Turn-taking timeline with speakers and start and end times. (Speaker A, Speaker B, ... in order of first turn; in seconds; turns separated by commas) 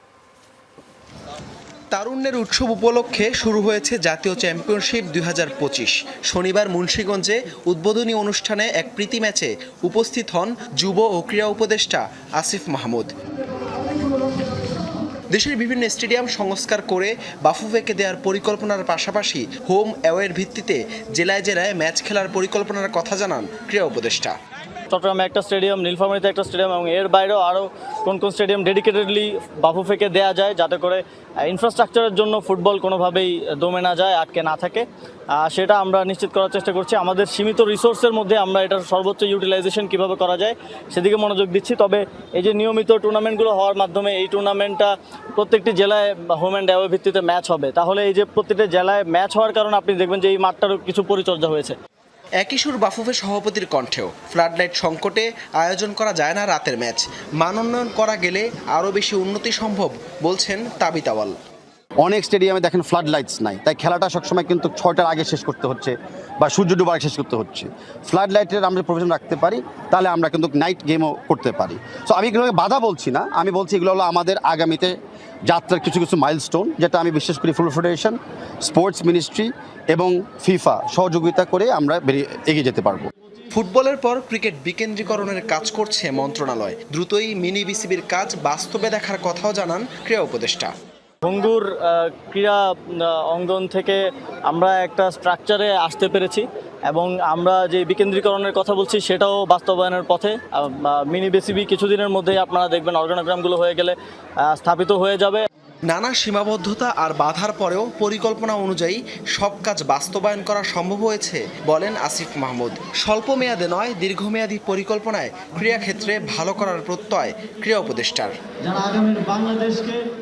Speaker A: 1.9-13.1, Speaker A: 15.3-24.4, Speaker B: 24.9-34.9, Speaker B: 35.4-51.8, Speaker A: 52.4-61.4, Speaker C: 62.0-74.9, Speaker C: 75.5-83.1, Speaker A: 83.5-90.7, Speaker B: 91.2-105.5, Speaker A: 105.9-118.4, Speaker B: 118.6-120.0